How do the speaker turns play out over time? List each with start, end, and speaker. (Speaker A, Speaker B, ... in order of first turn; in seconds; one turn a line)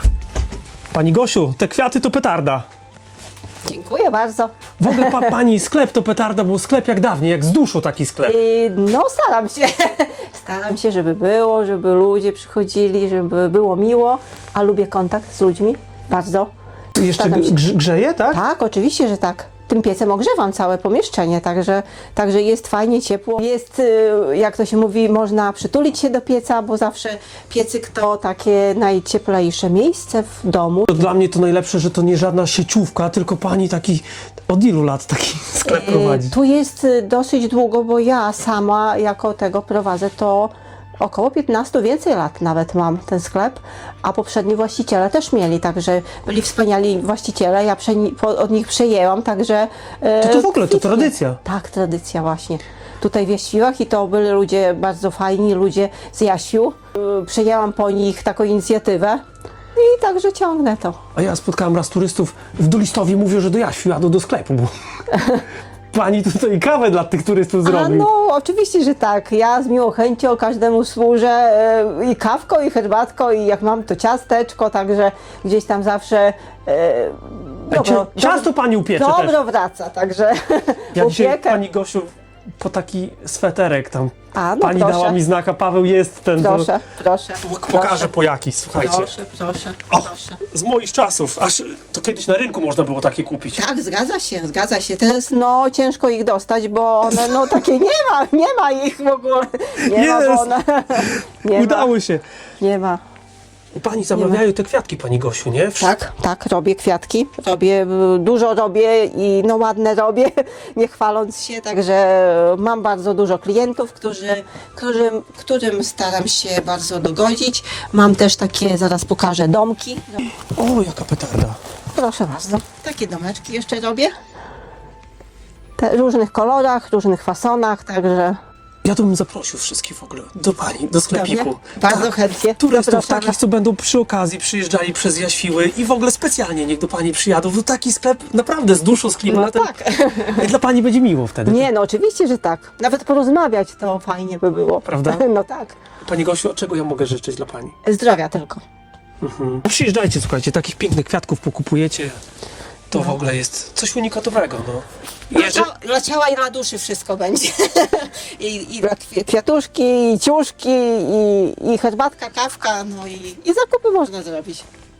Speaker A: 0.9-2.6
Speaker B: 3.6-5.3
Speaker A: 4.8-8.4
Speaker B: 8.2-16.5
Speaker A: 16.9-18.4
Speaker B: 17.1-17.6
Speaker B: 18.3-30.9
Speaker A: 30.9-36.3
Speaker B: 35.6-59.2
Speaker A: 50.2-51.4
Speaker B: 59.8-61.0
Speaker A: 61.1-64.7
Speaker B: 65.1-65.4
Speaker A: 65.9-68.1
Speaker B: 67.6-81.6
Speaker A: 77.7-79.3
Speaker A: 80.9-86.7
Speaker B: 84.3-85.2
Speaker B: 86.4-88.1
Speaker A: 87.4-89.1
Speaker B: 88.8-90.4
Speaker A: 89.9-93.6
Speaker B: 93.5-101.9
Speaker A: 99.8-102.2
Speaker B: 102.6-103.0
Speaker A: 103.8-105.9
Speaker B: 104.1-104.4
Speaker B: 105.8-120.2
Speaker A: 120.4-121.6
Speaker B: 121.9-124.1
Speaker B: 125.8-128.4
Speaker A: 128.8-139.7
Speaker B: 131.1-133.4
Speaker B: 139.3-140.5
Speaker A: 140.2-141.7
Speaker B: 141.4-145.8
Speaker A: 144.8-145.2
Speaker A: 146.0-147.7
Speaker B: 147.8-148.6
Speaker A: 149.2-152.2
Speaker A: 152.9-155.7
Speaker B: 155.3-164.6